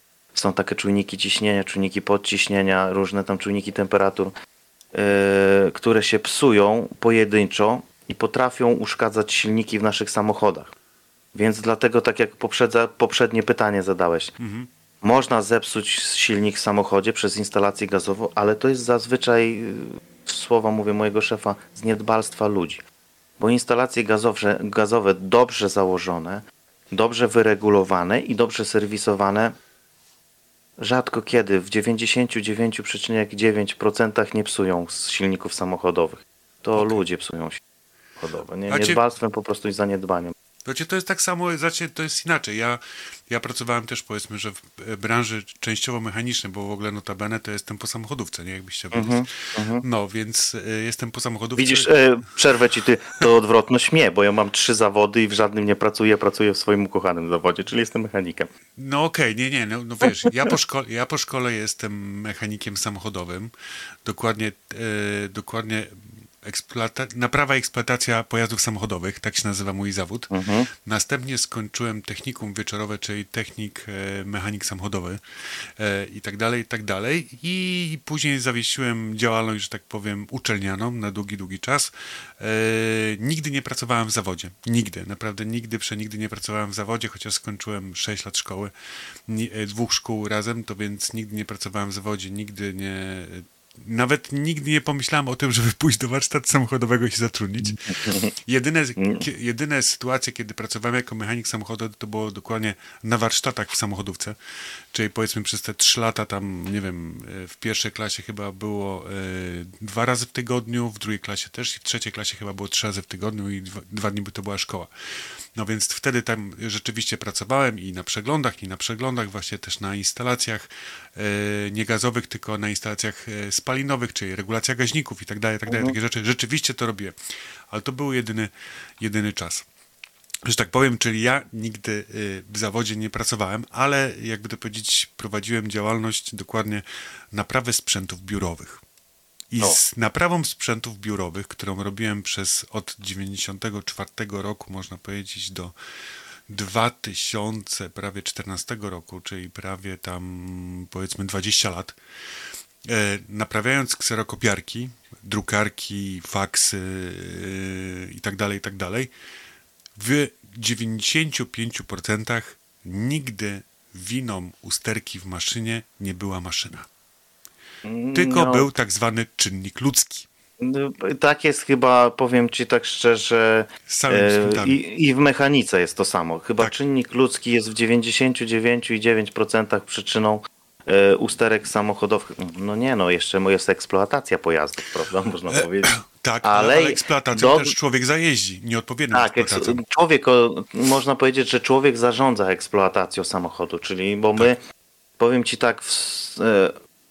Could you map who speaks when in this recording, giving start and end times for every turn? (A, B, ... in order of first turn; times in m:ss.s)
0:00.4-0:04.3 A
0:05.0-0:10.7 A
0:11.4-0:14.3 A
0:14.4-0:14.7 B
0:15.0-0:22.8 A
0:23.4-0:29.6 A
0:30.8-0:37.6 A
0:36.8-0:37.0 B
0:38.2-0:40.4 A
0:38.7-0:39.0 B
0:40.6-0:51.9 B
0:48.9-0:49.8 A
0:51.6-0:58.5 A
0:58.8-1:03.5 B
1:04.0-1:15.2 B
1:10.3-1:10.7 A
1:15.8-1:28.7 B
1:29.3-1:37.9 B
1:37.8-1:38.3 A
1:38.4-1:44.4 B
1:39.0-1:39.2 A
1:44.9-1:54.9 B
1:55.6-2:07.2 B
2:05.7-2:06.0 A
2:07.7-2:09.6 B
2:10.5-2:18.8 B
2:19.5-2:25.7 B
2:26.5-2:32.0 B
2:32.9-2:39.1 B
2:40.0-2:46.9 B
2:47.8-2:48.7 A
2:48.1-2:50.3 B
2:50.6-3:07.7 A
2:53.9-2:54.8 B
3:05.5-3:09.8 B
3:09.1-3:14.6 A
3:15.2-3:16.8 A